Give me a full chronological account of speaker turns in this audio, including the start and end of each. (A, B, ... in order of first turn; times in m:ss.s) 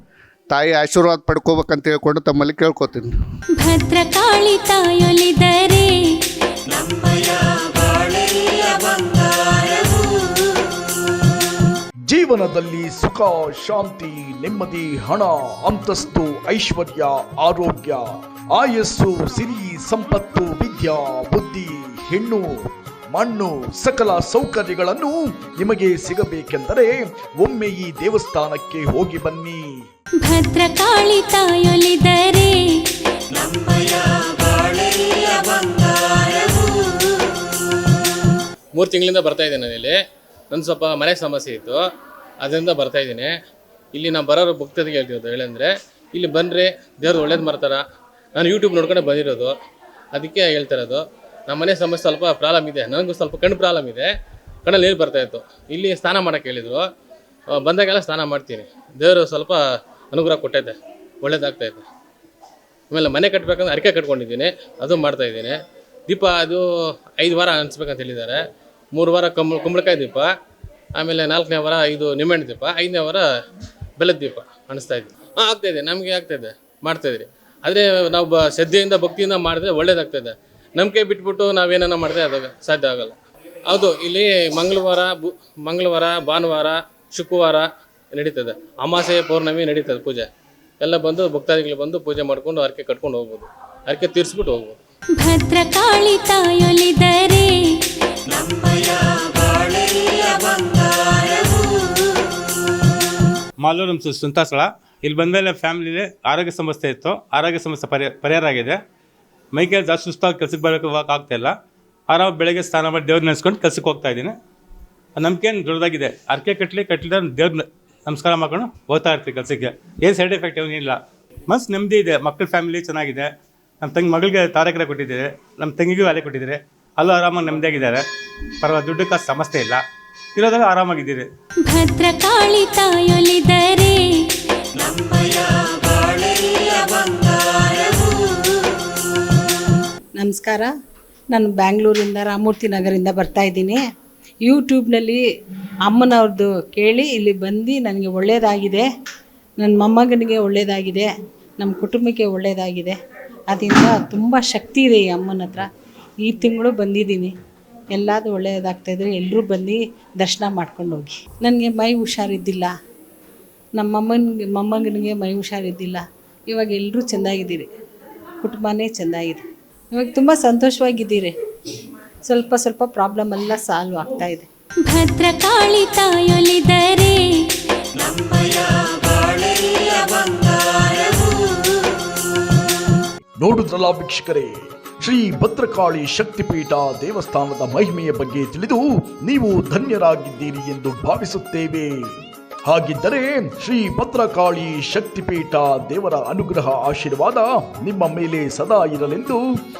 0:00.5-0:03.1 A
0:03.5-0:06.2 B
0:12.1-0:29.8 C
0:30.2-0:32.8 B
0:38.8-0:40.0 D
0:40.5-0:41.8 D
0:42.4-0:43.3 D
0:43.9-0:47.8 D
0:48.4-0:49.6 D
0:50.1-0:54.1 D
0:54.6-0:56.9 D
0:57.5-1:01.9 D
1:02.9-1:05.6 D
1:06.1-1:06.7 D
1:07.2-1:08.4 D
1:09.0-1:10.3 D
1:11.0-1:13.3 D
1:14.0-1:23.2 D
1:23.7-1:30.3 D
1:30.8-1:34.8 D
1:35.1-1:37.8 B
1:43.6-1:48.8 E
1:49.5-1:51.5 E
1:52.1-1:54.3 E
1:55.2-2:03.3 E
2:03.8-2:08.0 E
2:08.6-2:09.8 E
2:10.4-2:11.3 E
2:11.6-2:14.3 B
2:20.2-2:20.7 F
2:21.3-2:23.8 F
2:24.4-2:25.2 F
2:25.8-2:28.8 F
2:29.6-2:31.1 F
2:31.6-2:33.0 F
2:33.5-2:35.7 F
2:36.2-2:37.3 F
2:37.9-2:42.7 F
2:43.8-2:47.7 F
2:48.4-2:51.3 F
2:52.2-2:54.5 F
2:54.8-2:57.5 B
3:03.4-3:19.4 C